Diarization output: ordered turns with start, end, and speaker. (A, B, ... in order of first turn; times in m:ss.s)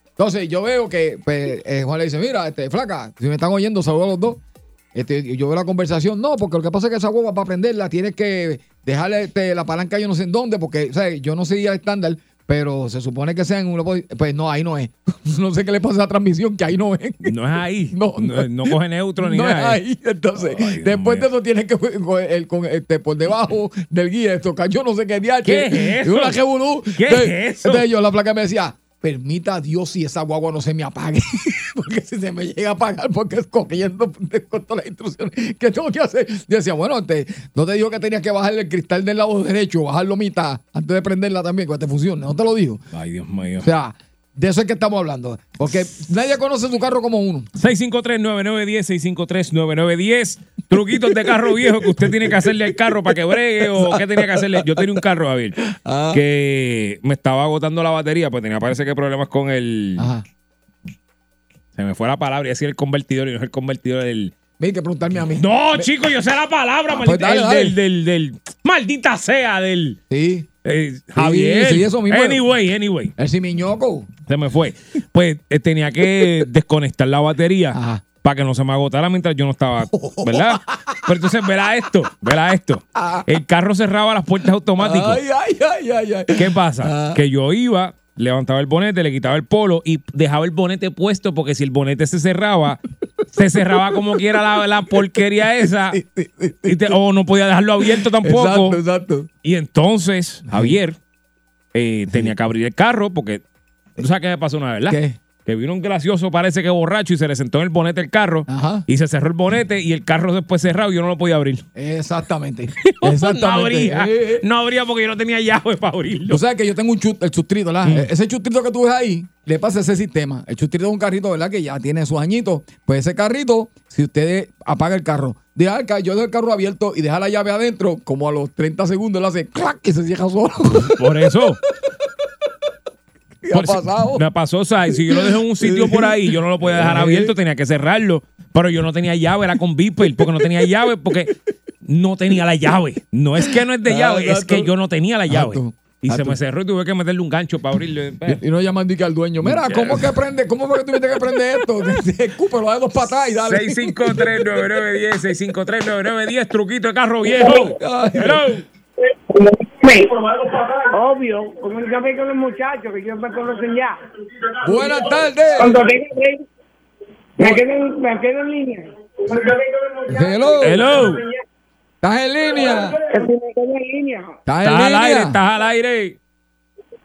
0:00.2-0:04.4 A
0:04.9-0:17.3 A
0:17.2-0:19.8 B
0:17.9-0:42.8 A
0:20.4-0:21.3 B
0:25.4-0:26.4 B
0:26.9-0:27.8 B
0:42.9-0:43.7 B
0:43.6-0:47.5 A
0:47.6-1:00.1 B
0:51.5-0:52.4 A
0:53.7-0:54.9 A
0:55.7-0:56.2 A
1:00.0-1:00.2 A
1:01.8-1:04.3 B
1:04.6-1:05.9 A
1:05.4-1:10.0 B
1:06.9-1:07.8 A
1:10.1-1:10.5 A
1:10.6-1:13.1 B
1:11.2-1:12.4 A
1:13.2-1:14.1 A
1:14.3-1:25.2 B
1:17.7-1:18.0 A
1:19.9-1:21.0 A
1:23.0-1:23.2 A
1:24.8-1:27.2 A
1:26.3-1:32.8 B
1:33.3-1:36.0 B
1:33.6-1:34.0 A
1:35.9-1:37.0 A
1:36.6-1:38.8 B
1:37.8-1:39.3 A
1:39.4-1:41.0 B
1:40.5-1:40.8 A
1:41.7-1:43.4 B
1:44.0-1:51.6 B
1:44.9-1:45.2 A
1:48.5-1:48.8 A
1:51.7-1:54.4 A
1:52.8-1:56.4 B
1:56.3-2:11.0 A
2:10.9-2:11.6 B
2:13.4-2:14.2 A
2:13.5-2:28.4 B
2:14.9-2:17.3 A
2:23.4-2:24.7 A
2:25.3-2:26.4 A
2:28.2-2:34.2 A
2:29.4-2:30.1 B
2:33.4-2:38.6 B
2:37.7-2:38.4 A
2:39.3-2:40.1 C
2:40.9-2:44.0 C
2:44.6-2:45.8 A
2:45.6-2:46.4 C
2:47.4-2:49.5 C
2:50.1-2:50.9 A
2:50.6-2:51.2 B
2:52.0-2:53.0 A
2:53.1-2:54.4 C
2:54.5-2:55.4 A
2:54.6-2:56.2 B